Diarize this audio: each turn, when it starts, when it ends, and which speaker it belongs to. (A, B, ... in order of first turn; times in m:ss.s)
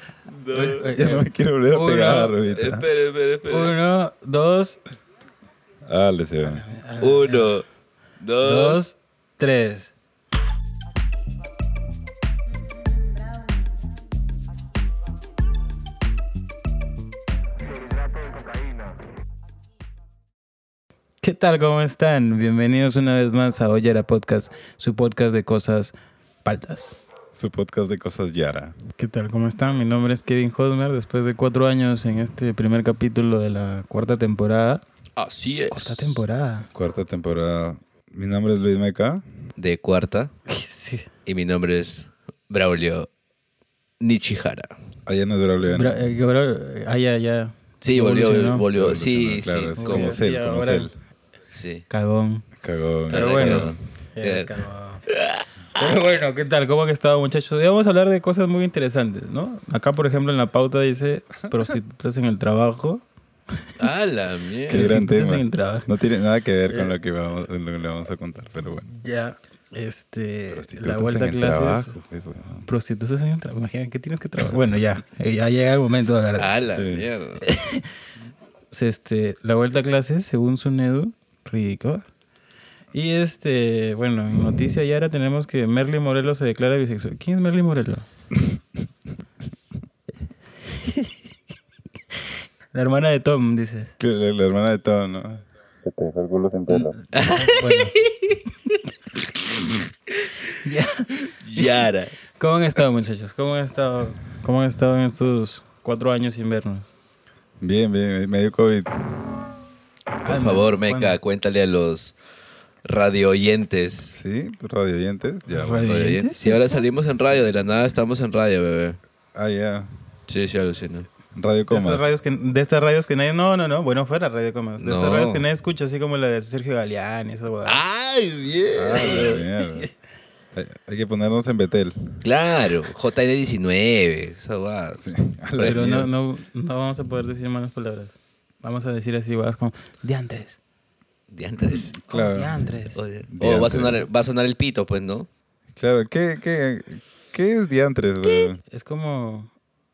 0:00.3-0:00.9 A
0:00.5-0:02.4 B
0:00.9-0:02.8 C
0:02.5-0:03.7 A
0:03.5-0:04.8 B
0:05.8-0:06.6 C
0:06.4-0:07.5 B
0:07.0-0:07.6 A
0:08.2-0:08.8 A
0:08.4-0:09.9 B
0:21.2-0:27.0 B
0:27.3-0:28.8 C
0:29.0-0:34.8 B
0:35.2-0:36.2 A
0:35.7-0:36.7 B
0:36.7-0:39.2 C
0:39.6-0:40.3 A
0:40.5-0:41.1 B
0:41.2-0:43.1 A
0:44.0-0:44.7 A
0:45.0-0:46.0 C
0:45.6-0:48.6 B
0:47.8-0:50.2 A
0:48.7-0:50.9 C
0:49.8-0:50.9 B
0:51.5-0:51.8 A
0:51.9-0:52.4 B
0:52.6-0:53.8 C
0:53.1-0:54.5 A
0:53.1-0:55.0 B
0:55.1-0:55.4 A
0:55.8-1:03.0 B
1:03.8-1:04.9 A
1:04.7-1:08.9 C
1:04.7-1:05.9 B
1:08.9-1:11.9 B
1:10.5-1:12.6 C
1:12.6-1:16.5 B
1:16.4-1:17.4 A
1:16.7-1:17.1 C
1:17.4-1:17.8 B
1:18.7-1:22.1 B
1:22.9-1:28.0 B
1:30.7-1:31.1 B
1:32.7-1:33.9 B
1:34.0-1:37.0 C
1:37.1-1:38.2 A
1:37.3-1:37.9 B
1:40.6-1:46.9 B
1:41.4-1:42.2 A
1:47.6-1:48.9 C
1:50.2-1:51.2 B
1:50.2-1:52.1 A
1:52.8-1:54.1 A
1:54.1-1:55.9 C
1:55.5-1:56.8 B
1:55.8-1:59.0 A
1:59.3-1:59.9 C
2:00.3-2:01.1 A
2:01.3-2:02.0 C
2:01.7-2:07.8 B
2:04.8-2:05.5 A
2:07.6-2:09.4 A
2:08.7-2:09.9 C
2:09.1-2:09.9 B
2:10.5-2:12.2 C
2:12.2-2:15.0 A
2:15.0-2:16.1 C
2:15.6-2:20.6 B
2:21.3-2:21.9 A
2:21.6-2:22.7 C
2:22.1-2:23.0 B
2:22.9-2:25.3 A
2:23.3-2:24.0 C
2:25.8-2:28.6 C
2:28.7-2:29.5 B